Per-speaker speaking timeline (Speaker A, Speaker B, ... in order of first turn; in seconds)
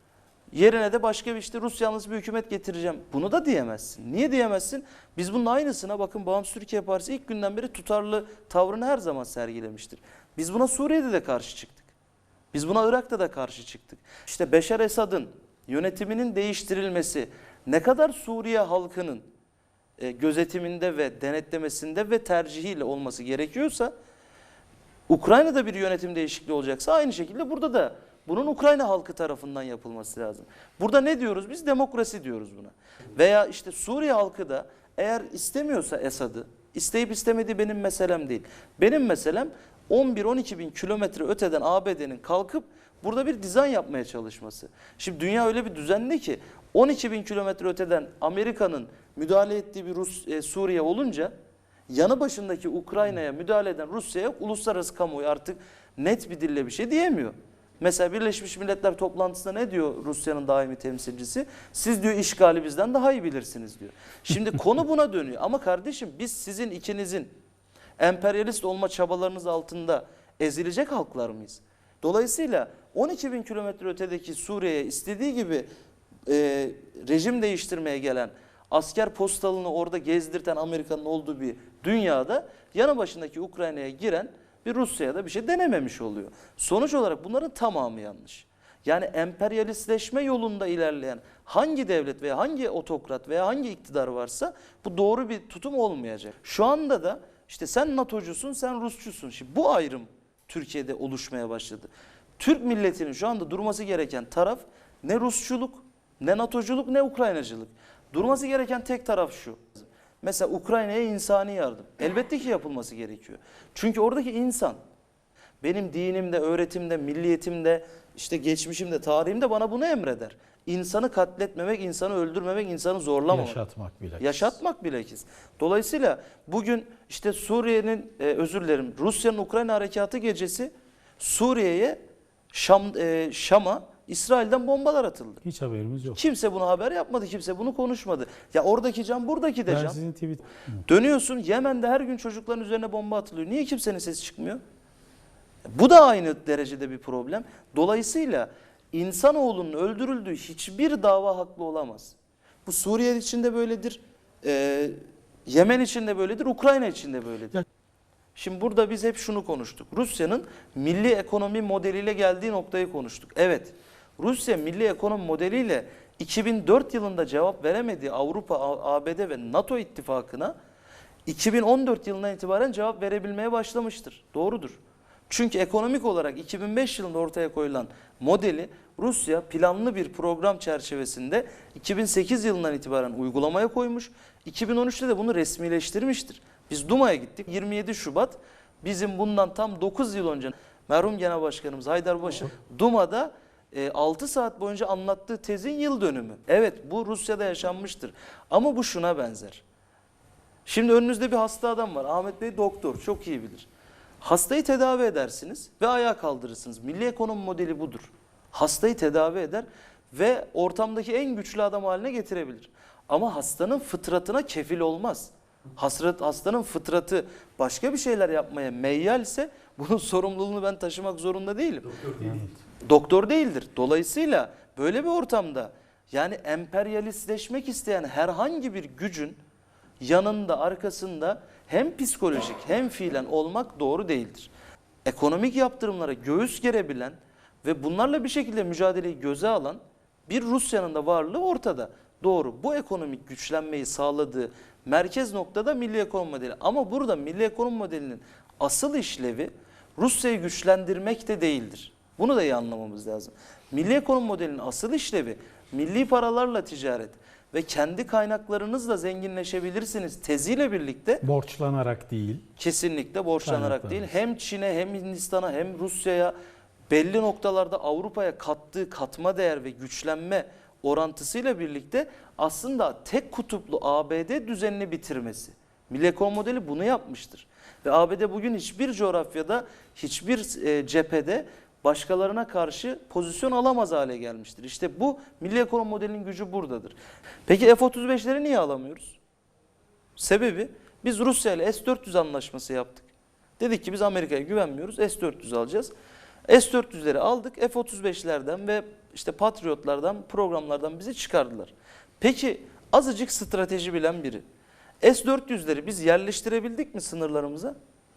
Speaker A: 0.5-11.9, 12.5-19.2, 20.0-23.9, 25.1-51.3, 51.9-67.3, 68.0-75.7, 76.3-114.8, 115.6-123.6, 124.2-132.0, 132.5-135.4, 136.1-140.0, 140.8-144.6, 145.7-157.6, 158.3-170.5, 171.3-199.6, 200.7-203.7, 204.2-222.3, 222.8-229.4, 230.0-234.5, 235.0-261.2, 262.6-266.3, 266.9-286.9, 287.5-289.2, 290.2-295.9, 296.5-304.4, 305.0-307.7
Speaker B: 123.3-124.5, 135.4-136.2, 139.7-140.6, 222.2-222.6, 261.2-262.4, 263.4-264.0